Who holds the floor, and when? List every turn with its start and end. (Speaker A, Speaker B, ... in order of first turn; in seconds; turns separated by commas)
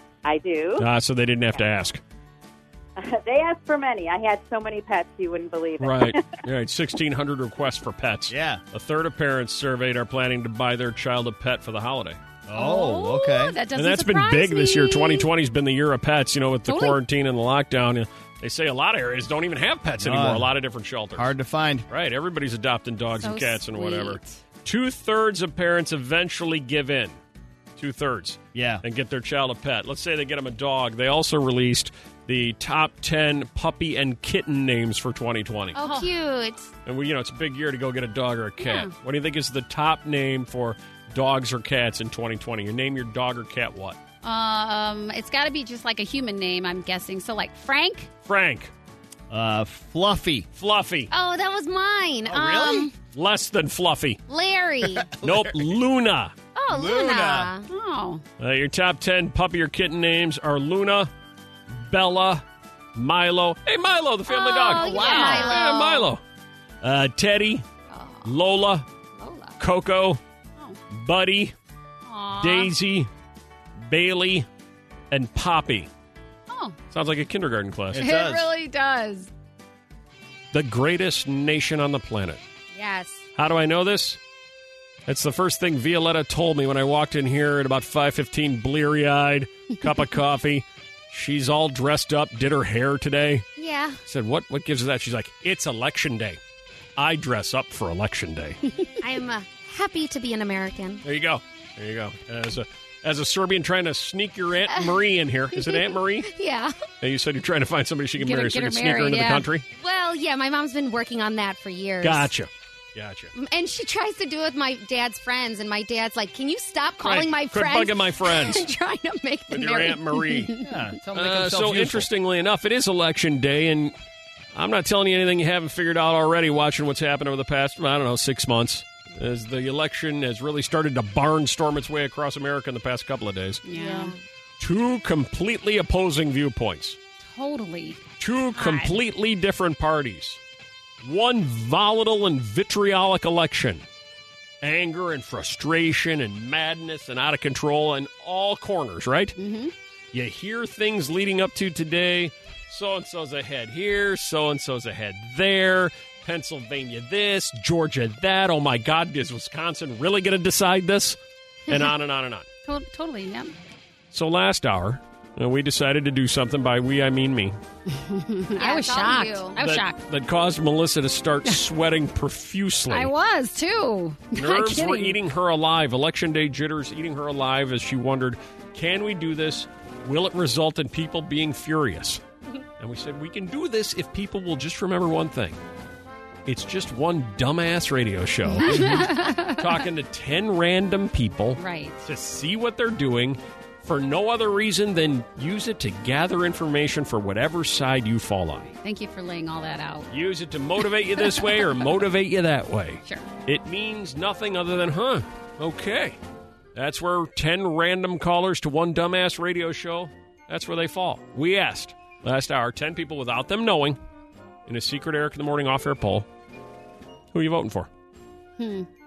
Speaker A: 0.2-0.9, Speaker B: 0.8-2.0, Speaker A: 3.0-6.2, Speaker B: 5.8-12.2, Speaker C: 8.3-8.6, Speaker C: 12.5-13.6, Speaker D: 12.5-15.3, Speaker B: 13.8-21.3, Speaker D: 16.7-17.0, Speaker C: 20.0-20.5, Speaker C: 21.2-21.9, Speaker B: 21.9-27.2, Speaker D: 23.2-24.4, Speaker B: 27.8-35.8, Speaker C: 28.5-28.8, Speaker D: 35.8-36.1, Speaker E: 35.8-36.7, Speaker B: 36.9-44.0, Speaker D: 38.6-38.9, Speaker D: 44.2-48.1, Speaker B: 48.2-48.7, Speaker C: 49.3-50.5, Speaker B: 50.6-51.1, Speaker E: 51.1-52.9, Speaker C: 52.3-52.9, Speaker B: 53.1-54.2, Speaker E: 54.3-55.1, Speaker C: 54.8-55.7, Speaker B: 55.2-56.3, Speaker E: 56.5-57.7, Speaker C: 56.7-57.5, Speaker D: 57.7-58.2, Speaker B: 58.4-61.1, Speaker B: 61.7-66.2, Speaker E: 64.3-66.1, Speaker D: 64.6-65.7, Speaker C: 64.8-65.4, Speaker B: 66.8-67.7, Speaker E: 67.9-68.3, Speaker B: 68.2-68.9, Speaker E: 69.2-69.6, Speaker B: 69.6-70.2, Speaker B: 70.9-71.5, Speaker D: 72.0-72.7, Speaker B: 72.4-73.1, Speaker B: 73.8-74.5, Speaker B: 75.1-75.9, Speaker D: 76.5-76.8, Speaker B: 76.9-78.1, Speaker C: 77.9-78.5, Speaker D: 78.0-79.3, Speaker B: 80.5-82.4, Speaker D: 82.8-83.2, Speaker B: 83.4-84.2, Speaker B: 85.1-93.5, Speaker E: 93.6-94.0, Speaker B: 94.1-96.4, Speaker B: 97.0-98.6, Speaker E: 99.0-101.0, Speaker B: 101.0-106.3, Speaker E: 104.7-105.0, Speaker E: 105.5-106.8, Speaker B: 107.0-109.7, Speaker D: 108.2-109.5, Speaker E: 109.8-112.3, Speaker B: 112.0-113.3, Speaker E: 113.3-120.2, Speaker B: 117.0-118.7, Speaker B: 119.5-120.6, Speaker C: 120.6-122.1, Speaker B: 121.1-123.9, Speaker B: 124.5-133.6, Speaker D: 133.7-134.2, Speaker E: 133.7-134.2, Speaker B: 134.6-137.0, Speaker D: 137.3-138.0, Speaker B: 138.2-140.4, Speaker D: 138.6-139.0, Speaker B: 141.0-143.8, Speaker B: 144.6-149.3, Speaker D: 149.4-149.7, Speaker B: 150.1-162.5, Speaker D: 162.7-163.6, Speaker B: 164.1-167.6, Speaker D: 167.9-170.0, Speaker E: 168.6-169.6, Speaker B: 169.6-173.1, Speaker D: 172.9-175.2, Speaker B: 174.3-182.2, Speaker B: 182.8-185.6, Speaker B: 186.5-198.7, Speaker D: 188.5-189.8, Speaker C: 188.8-189.1, Speaker D: 191.6-192.0, Speaker D: 198.8-200.1, Speaker B: 200.1-206.2, Speaker D: 201.3-201.7, Speaker B: 206.8-214.0, Speaker B: 214.7-216.3, Speaker B: 217.3-217.9, Speaker D: 218.6-218.9